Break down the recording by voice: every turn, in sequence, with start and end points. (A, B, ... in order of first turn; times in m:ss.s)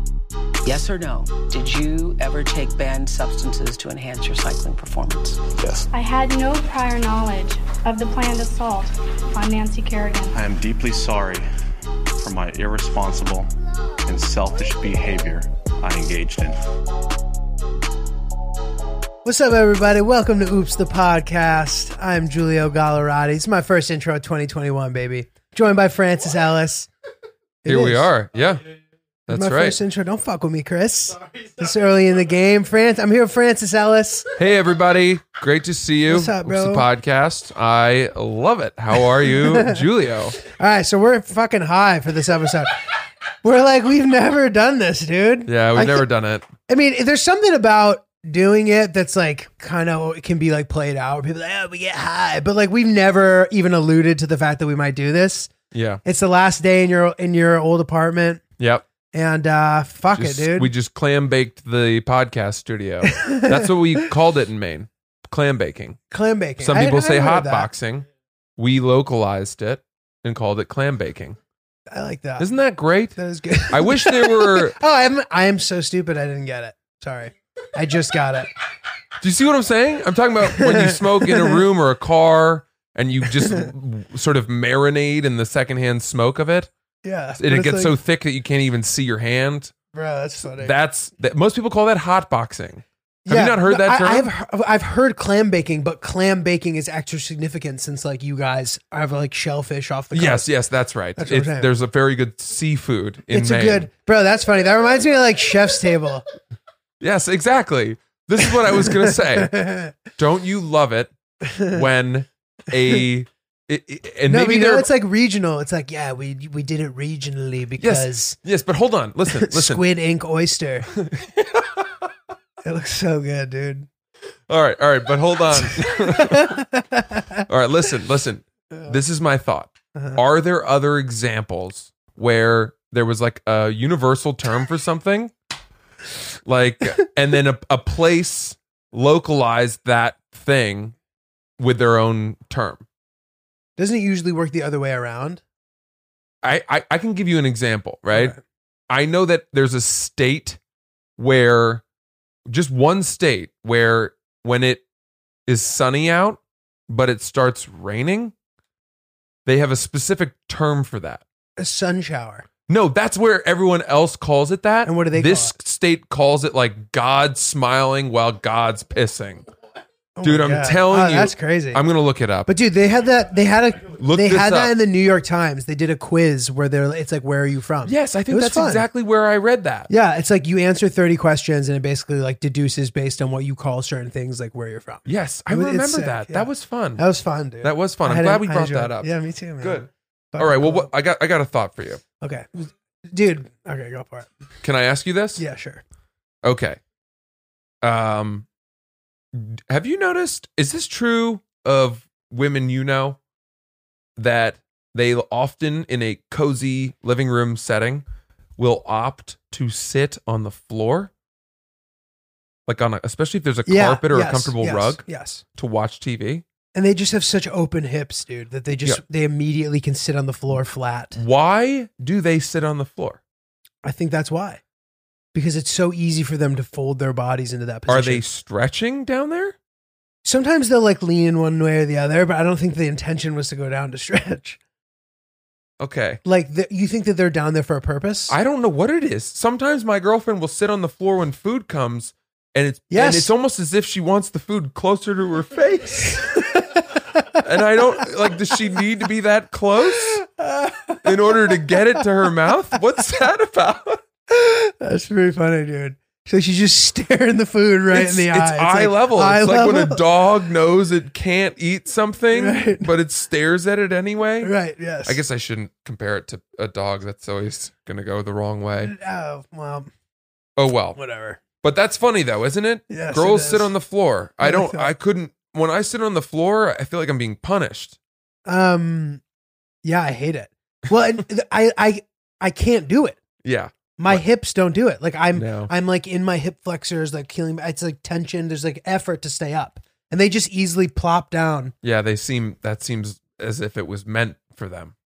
0:00.6-0:05.5 A
0:05.5-0:05.9 B
0:05.9-0:10.4 C
0:10.3-0:11.4 B
0:12.2-0:13.5 B
0:14.0-0:16.6 B
0:19.2-0:26.9 D
0:27.6-0:28.1 D
0:27.6-0:28.6 E
0:29.3-0:29.8 E
0:29.3-0:34.4 D
0:34.4-0:40.4 E
0:36.1-0:36.8 D
0:39.0-0:39.8 D
0:40.4-0:42.8 D
0:43.4-0:46.1 D
0:45.5-0:46.5 E
0:46.7-0:55.5 D
0:55.7-0:56.0 E
0:56.0-0:58.4 D
0:58.6-0:58.8 E
0:59.1-1:00.7 D
1:00.1-1:06.0 E
1:03.1-1:03.7 D
1:06.1-1:07.7 D
1:06.6-1:08.0 E
1:08.6-1:11.4 E
1:11.9-1:12.5 D
1:12.4-1:13.2 E
1:13.1-1:18.5 D
1:13.7-1:14.8 E
1:19.2-1:26.7 E
1:20.5-1:21.6 D
1:23.4-1:23.7 D
1:27.0-1:28.0 D
1:27.4-1:29.7 E
1:29.9-1:30.7 D
1:30.6-1:34.3 E
1:33.2-1:40.5 D
1:40.1-1:43.9 E
1:41.2-1:41.7 D
1:43.3-1:46.2 D
1:47.0-1:49.6 E
1:48.7-1:49.9 D
1:50.1-1:51.1 E
1:51.5-1:51.7 D
1:51.6-1:54.9 E
1:54.3-1:58.4 D
1:57.8-1:59.8 E
1:59.3-2:00.9 D
2:00.9-2:02.1 E
2:02.6-2:03.9 D
2:04.5-2:06.6 E
2:05.6-2:07.4 D
2:07.5-2:15.3 E
2:09.9-2:10.2 D
2:16.4-2:20.9 E
2:21.6-2:22.8 E
2:23.8-2:25.4 D
2:26.4-2:28.3 E
2:28.1-2:28.4 D
2:28.9-2:30.6 E
2:31.2-2:31.8 E
2:32.5-2:34.8 E
2:35.5-2:38.3 E
2:39.4-2:41.2 E
2:41.6-2:42.4 D
2:42.7-2:49.4 E
2:44.8-2:45.6 D
2:50.2-2:51.8 D
2:50.2-2:52.5 E
2:52.5-2:58.8 D
2:54.0-2:54.8 E
2:57.8-2:59.9 E
2:59.9-3:10.9 D
3:05.0-3:07.0 E
3:07.6-3:12.0 E
3:12.2-3:14.3 D
3:14.6-3:15.4 E
3:15.4-3:15.8 D
3:16.4-3:16.8 E
3:17.8-3:18.5 E
3:19.3-3:23.2 E
3:24.2-3:28.0 E
3:28.6-3:31.1 E
3:32.6-3:35.0 E
3:33.6-3:35.4 D
3:35.5-3:36.4 E
3:36.7-3:41.2 D
3:41.1-3:43.2 E
3:43.8-3:44.6 D
3:45.3-3:48.2 D
3:47.9-3:49.6 E
3:50.2-3:54.6 D
3:55.8-3:56.2 E
3:56.2-3:58.3 D
3:58.3-4:06.8 E
4:02.9-4:03.3 D
4:06.3-4:07.4 D
4:07.3-4:10.2 E
4:10.1-4:12.0 D
4:11.0-4:14.0 E
4:14.3-4:20.0 D
4:17.9-4:28.9 E
4:22.3-4:22.9 D
4:24.4-4:25.2 D
4:28.8-4:29.9 D
4:30.6-4:31.0 E
4:31.0-4:31.4 D
4:31.6-4:38.0 E
4:32.9-4:33.7 D
4:34.4-4:34.9 D
4:38.4-4:39.2 D
4:39.8-4:43.2 D
4:43.4-4:44.2 E
4:44.0-4:51.7 D
4:45.3-4:45.7 E
4:51.8-4:54.9 E